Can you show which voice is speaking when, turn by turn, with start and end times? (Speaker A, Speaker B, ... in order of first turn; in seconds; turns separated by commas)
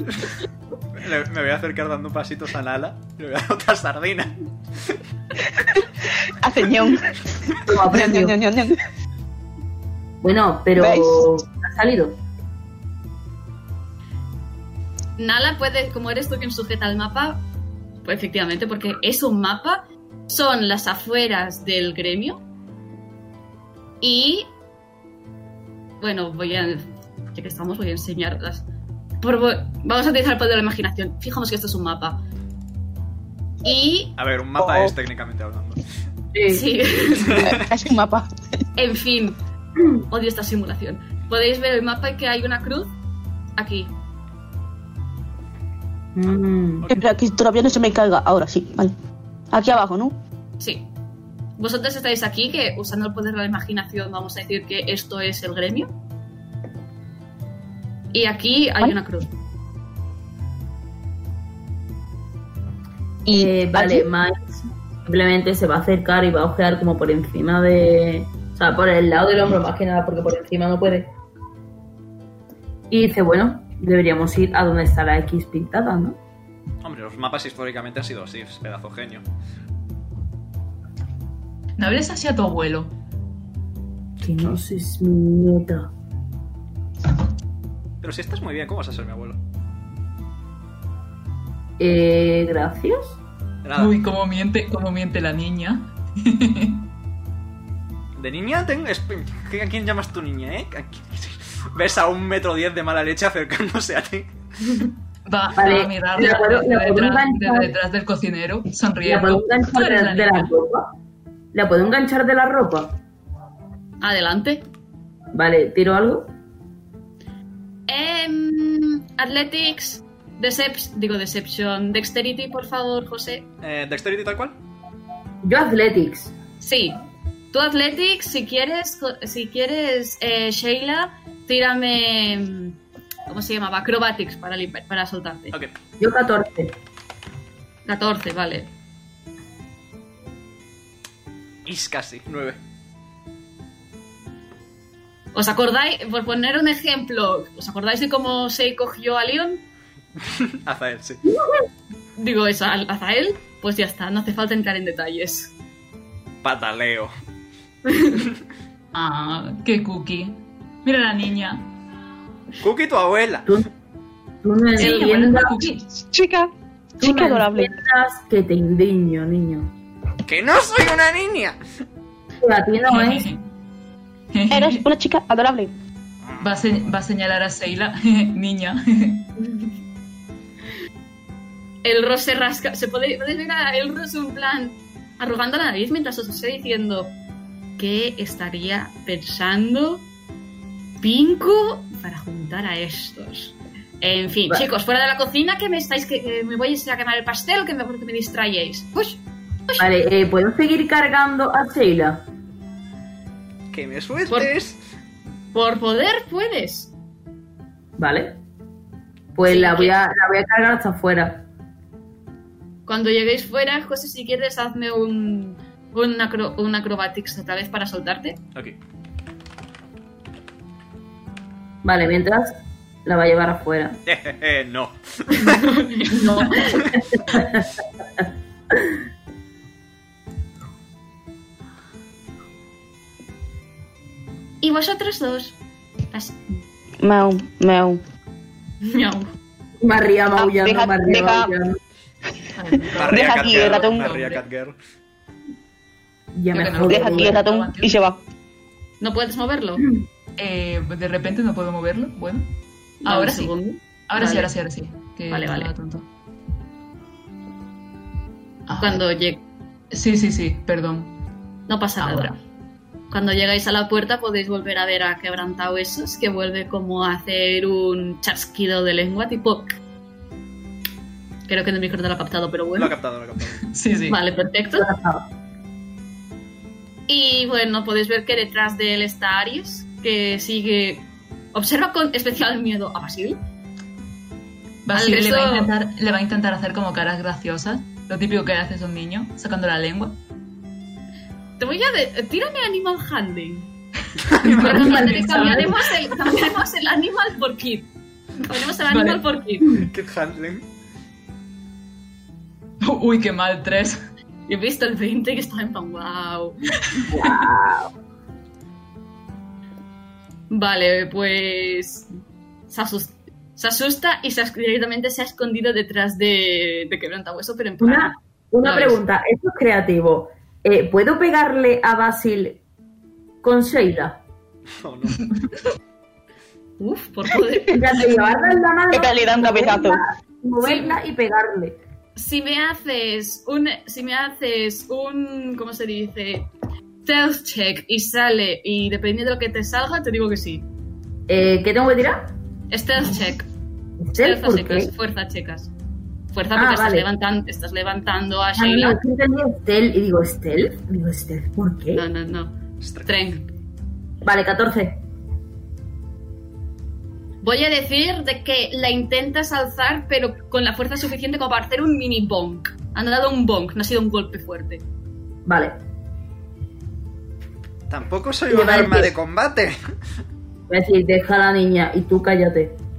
Speaker A: 1.0-4.4, Speaker B: 6.4-7.2, Speaker C: 7.7-8.3, Speaker B: 7.8-8.8, Speaker C: 10.2-12.2, Speaker B: 10.8-11.3, Speaker D: 15.2-17.4, Speaker D: 18.0-22.4, Speaker D: 24.0-24.5, Speaker D: 26.0-28.6, Speaker D: 29.2-32.2, Speaker D: 33.6-34.1, Speaker A: 34.2-35.8, Speaker B: 34.6-34.9, Speaker C: 36.3-36.7, Speaker D: 36.5-37.5, Speaker A: 37.2-37.6, Speaker B: 37.3-38.3, Speaker D: 38.8-39.4, Speaker D: 40.0-42.9, Speaker D: 43.6-43.9, Speaker C: 46.1-46.9, Speaker B: 46.9-48.9, Speaker B: 49.5-50.2, Speaker D: 50.6-50.9, Speaker D: 51.6-55.9, Speaker D: 58.1-59.3, Speaker B: 63.3-64.1, Speaker C: 63.3-71.1, Speaker C: 72.9-76.2, Speaker A: 76.8-79.2, Speaker E: 81.8-82.9, Speaker C: 84.2-85.9, Speaker A: 88.0-89.4, Speaker C: 91.8-93.2, Speaker A: 93.6-94.0, Speaker E: 93.8-96.9, Speaker A: 98.2-104.3, Speaker E: 105.3-110.5, Speaker C: 105.6-107.7, Speaker C: 109.1-110.9, Speaker C: 111.5-113.0, Speaker D: 114.0-114.6, Speaker C: 115.3-116.3, Speaker D: 117.9-123.5, Speaker A: 123.6-124.5, Speaker C: 125.4-126.3, Speaker D: 126.6-127.0, Speaker D: 127.5-132.8, Speaker D: 133.3-135.6, Speaker C: 136.0-136.8, Speaker D: 137.9-138.7, Speaker A: 141.7-142.6, Speaker D: 145.3-149.6, Speaker A: 150.3-151.2, Speaker D: 152.2-155.5, Speaker A: 156.4-157.1, Speaker E: 158.9-161.7, Speaker A: 162.6-163.5, Speaker C: 164.4-165.7, Speaker E: 164.8-165.8, Speaker B: 166.0-167.7, Speaker C: 167.0-169.7, Speaker A: 170.3-171.6, Speaker C: 172.4-173.3, Speaker E: 172.9-173.4, Speaker E: 174.3-174.9, Speaker B: 174.5-175.7, Speaker A: 176.3-176.8, Speaker E: 176.4-179.3, Speaker D: 179.4-179.7, Speaker D: 181.8-187.1, Speaker D: 187.8-190.1, Speaker D: 191.0-199.9, Speaker C: 199.8-202.2, Speaker A: 203.7-204.8, Speaker D: 205.5-206.9, Speaker C: 208.0-208.4, Speaker C: 209.3-211.4, Speaker D: 209.4-210.0, Speaker D: 212.9-218.4, Speaker C: 221.8-224.0, Speaker A: 224.1-225.7, Speaker D: 225.4-226.9, Speaker C: 226.2-227.7, Speaker D: 234.6-235.6, Speaker D: 236.1-236.4, Speaker B: 237.0-238.0, Speaker D: 238.8-239.3, Speaker C: 239.8-241.8, Speaker B: 240.3-241.5, Speaker E: 242.6-244.4, Speaker A: 242.9-244.8, Speaker B: 243.0-244.2, Speaker C: 246.3-247.4, Speaker E: 246.5-248.0, Speaker B: 246.8-248.2, Speaker D: 249.0-249.9, Speaker E: 250.4-252.5, Speaker D: 253.0-254.5, Speaker E: 253.0-253.5, Speaker E: 254.1-256.1, Speaker D: 255.3-255.7, Speaker E: 258.7-259.1, Speaker D: 258.8-259.4, Speaker E: 259.9-261.1, Speaker D: 261.7-262.3, Speaker E: 262.0-262.4, Speaker D: 263.1-269.7, Speaker D: 271.5-272.9, Speaker A: 272.8-273.6, Speaker E: 273.6-274.2, Speaker D: 274.1-274.9, Speaker C: 274.8-275.3, Speaker D: 277.1-283.4, Speaker E: 284.9-290.2, Speaker D: 284.9-285.7, Speaker D: 291.6-293.7, Speaker A: 294.3-294.7, Speaker E: 294.3-295.8, Speaker D: 294.4-299.8, Speaker C: 294.6-295.8, Speaker E: 298.8-299.2, Speaker A: 299.8-300.6, Speaker E: 302.8-304.0, Speaker D: 304.5-306.6, Speaker E: 306.8-307.2, Speaker C: 307.1-307.9, Speaker D: 310.5-312.1, Speaker D: 312.7-319.0, Speaker C: 317.8-322.6, Speaker C: 323.4-324.2, Speaker A: 324.8-325.3, Speaker D: 326.8-328.6, Speaker C: 327.7-331.8, Speaker B: 328.9-330.0, Speaker D: 330.6-331.0, Speaker D: 332.2-336.5, Speaker D: 337.1-340.6, Speaker C: 341.3-342.3, Speaker D: 342.7-343.5, Speaker C: 344.1-344.9, Speaker D: 344.2-345.7, Speaker D: 346.3-349.0, Speaker C: 346.6-347.1, Speaker C: 348.6-352.0, Speaker D: 351.9-352.5, Speaker A: 352.8-353.1, Speaker D: 353.1-353.5, Speaker C: 354.2-355.0, Speaker D: 357.4-364.8, Speaker C: 365.5-365.8, Speaker A: 367.9-369.8, Speaker C: 368.5-369.1, Speaker C: 370.7-372.8